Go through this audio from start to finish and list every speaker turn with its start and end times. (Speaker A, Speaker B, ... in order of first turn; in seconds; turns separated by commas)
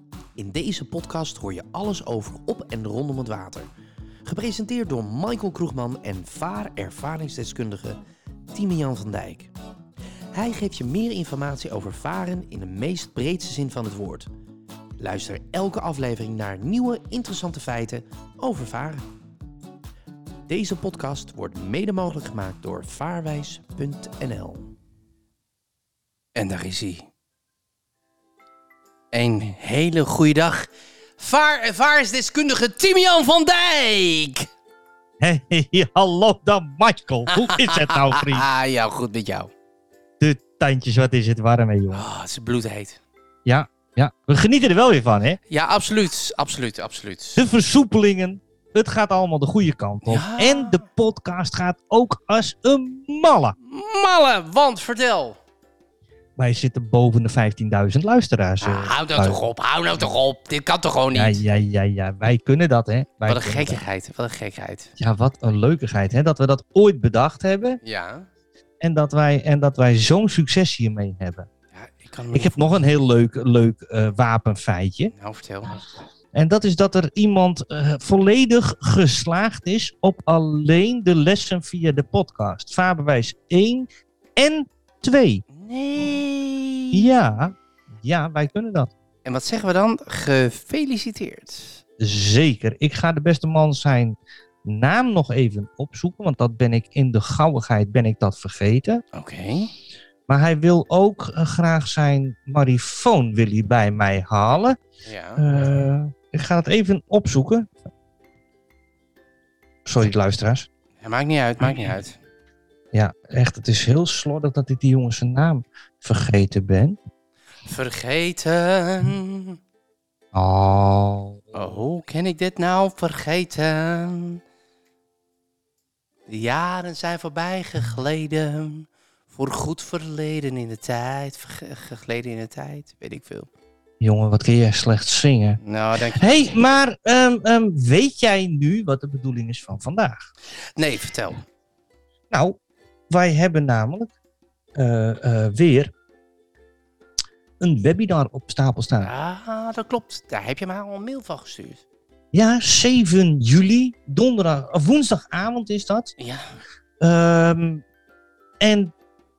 Speaker A: 0.4-3.7, Speaker A: 4.2-8.0, Speaker A: 8.5-9.5, Speaker A: 10.3-14.3, Speaker A: 15.0-19.0, Speaker A: 20.5-24.7, Speaker A: 26.4-27.1, Speaker A: 29.1-34.5, Speaker B: 35.2-38.5, Speaker A: 37.3-39.5, Speaker B: 40.2-42.0, Speaker A: 41.9-43.0, Speaker B: 43.5-45.4, Speaker A: 45.5-47.4, Speaker B: 47.4-53.5, Speaker A: 50.0-50.8, Speaker A: 53.6-55.4, Speaker B: 56.4-59.4, Speaker A: 58.6-61.4, Speaker B: 61.1-63.8, Speaker A: 63.2-64.9, Speaker B: 65.0-67.8, Speaker A: 67.8-68.3, Speaker B: 68.8-71.5, Speaker A: 71.7-72.7, Speaker B: 72.3-75.1, Speaker A: 75.1-75.8, Speaker B: 76.3-85.4, Speaker A: 85.5-87.1, Speaker B: 86.9-88.9, Speaker A: 89.2-91.8, Speaker B: 92.0-99.0, Speaker A: 99.1-99.7, Speaker B: 100.3-104.8, Speaker A: 105.0-105.4, Speaker B: 105.4-107.8, Speaker B: 109.9-110.7, Speaker A: 111.0-112.2, Speaker B: 111.6-112.0, Speaker B: 112.9-117.0, Speaker A: 117.6-119.6, Speaker B: 120.3-121.8, Speaker A: 121.5-124.4, Speaker A: 126.3-133.5, Speaker B: 134.0-135.6, Speaker A: 135.6-136.6, Speaker B: 136.1-140.2, Speaker A: 140.8-141.4, Speaker B: 142.3-142.6, Speaker B: 143.1-144.1, Speaker B: 144.8-145.9, Speaker B: 147.6-149.1, Speaker A: 149.0-151.8, Speaker B: 152.3-156.1, Speaker A: 156.2-156.6, Speaker B: 157.0-157.8, Speaker B: 158.6-158.9